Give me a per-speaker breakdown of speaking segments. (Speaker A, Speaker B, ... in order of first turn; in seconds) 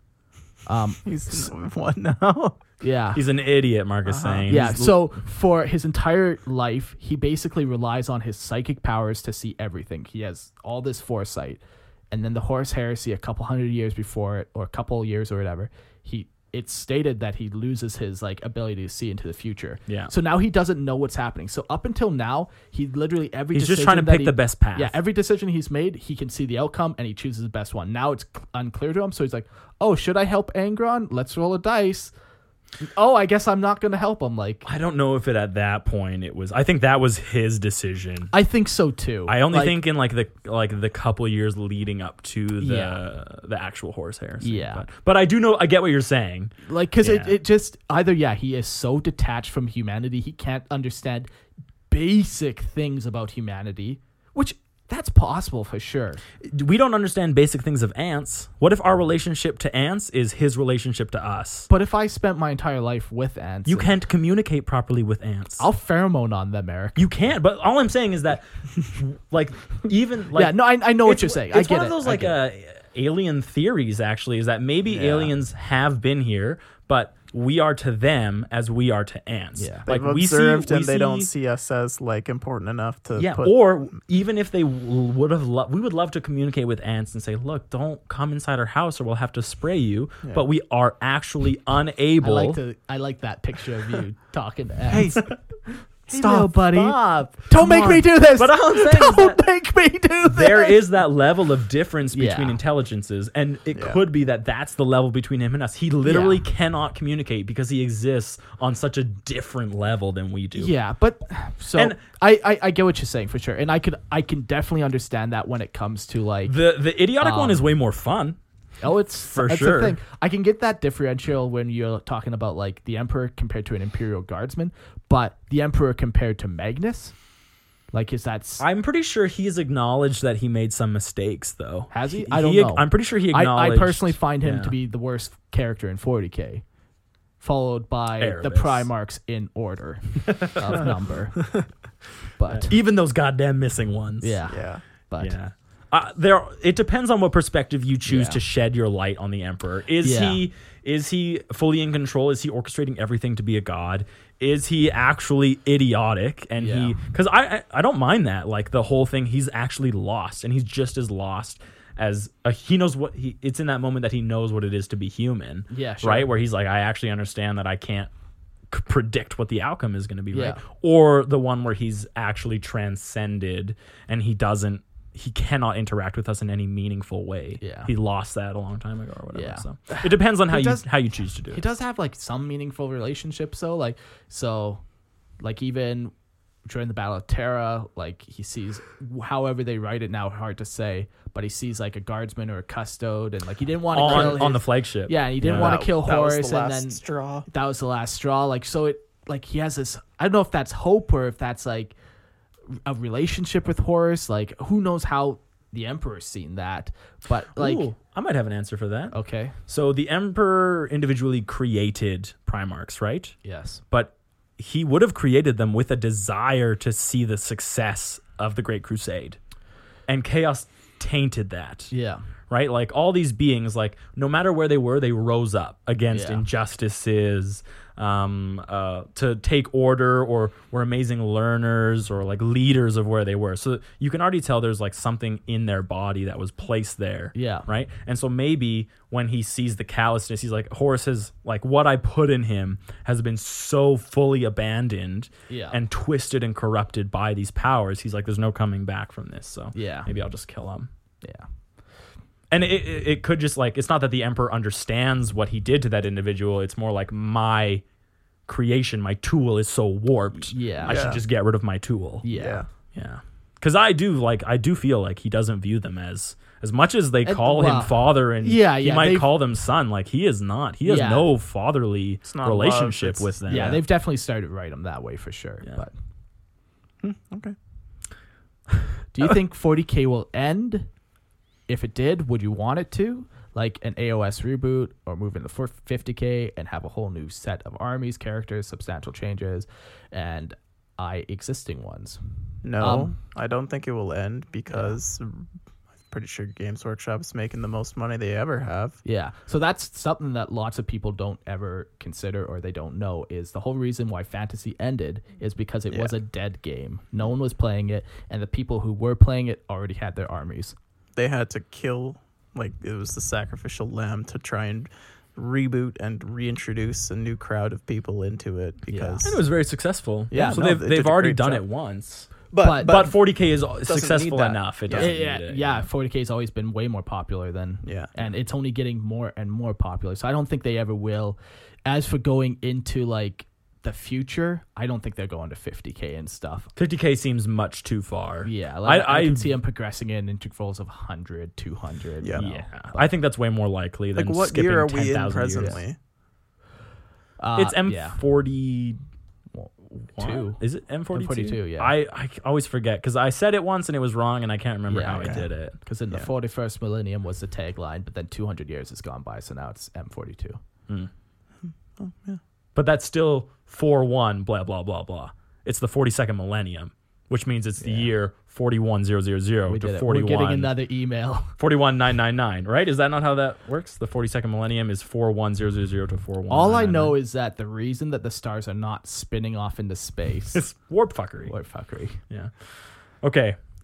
Speaker A: 0.7-1.5, 2.8-3.2, 4.5-32.1, 32.8-34.6, 38.3-39.8, 42.6-43.0, 44.4-44.9, 46.6-51.3, 51.9-56.2, 61.7-63.9, 65.6-67.1, 70.3-72.4, 79.6-79.9, 92.2-100.9, 102.1-102.6, 106.0-106.4, 110.5-116.6, 117.2-117.7, 118.8-127.2, 127.9-128.7, 131.9-136.6, 137.4-141.5, 142.4-142.7, 144.2-145.4, 148.1-148.4, 150.0-150.4, 156.6-157.0, 165.7-166.3, 170.3-170.6, 177.6-177.9, 179.3-180.9, 181.4-184.8, 185.4-186.1, 186.7-201.9, 202.7-207.9, 209.1-209.6, 213.4-213.8, 221.9-222.2, 226.1-226.4, 237.3-237.7, 245.5-245.8, 249.7-250.1, 260.5-261.1, 262.2-262.6, 267.2-269.3, 270.9-271.3, 273.5-275.9, 279.1-280.9, 281.7-292.2, 292.8-293.2, 294.7-295.0, 299.1-310.8, 318.9-319.2, 320.3-320.7, 322.6-323.0, 324.9-336.7, 338.4-343.1, 347.4-348.2, 349.5-350.6, 351.1-351.9, 354.9-360.6, 367.8-368.1, 369.7-371.5, 376.5-380.7, 381.5-382.2
Speaker B: 1.1-2.6, 4.0-4.5, 74.9-75.3, 79.9-83.5, 94.9-95.4, 96.1-97.1, 103.8-104.0, 144.5-144.8, 194.0-194.5, 195.4-197.5, 260.9-261.2, 262.3-262.7, 272.3-273.3, 277.0-277.6, 292.6-295.4, 296.1-299.0, 311.2-319.4, 320.3-321.6, 322.5-323.2, 323.9-325.1, 327.8-328.1, 342.2-342.5, 344.1-346.0, 355.1-355.4, 361.7-362.4
Speaker C: 3.1-5.2, 19.9-20.1, 23.5-25.0, 34.6-38.3, 39.3-47.4, 56.4-61.7, 63.7-65.7, 67.0-81.3, 83.2-92.6, 97.5-99.4, 100.3-110.7, 116.5-118.4, 119.3-120.0, 128.6-134.8, 138.2-138.9, 140.3-140.9, 142.5-144.4, 145.2-168.1, 168.7-181.6, 193.9-195.8, 207.6-209.2, 209.7-213.4, 213.9-219.4, 220.1-221.9, 222.5-250.9, 252.5-257.8, 258.5-262.3, 262.9-273.8, 319.2-325.9, 336.8-339.6, 342.4-345.8, 347.6-349.0, 350.1-355.8, 362.8-370.7, 371.6-377.2, 380.5-381.5, 383.2-383.6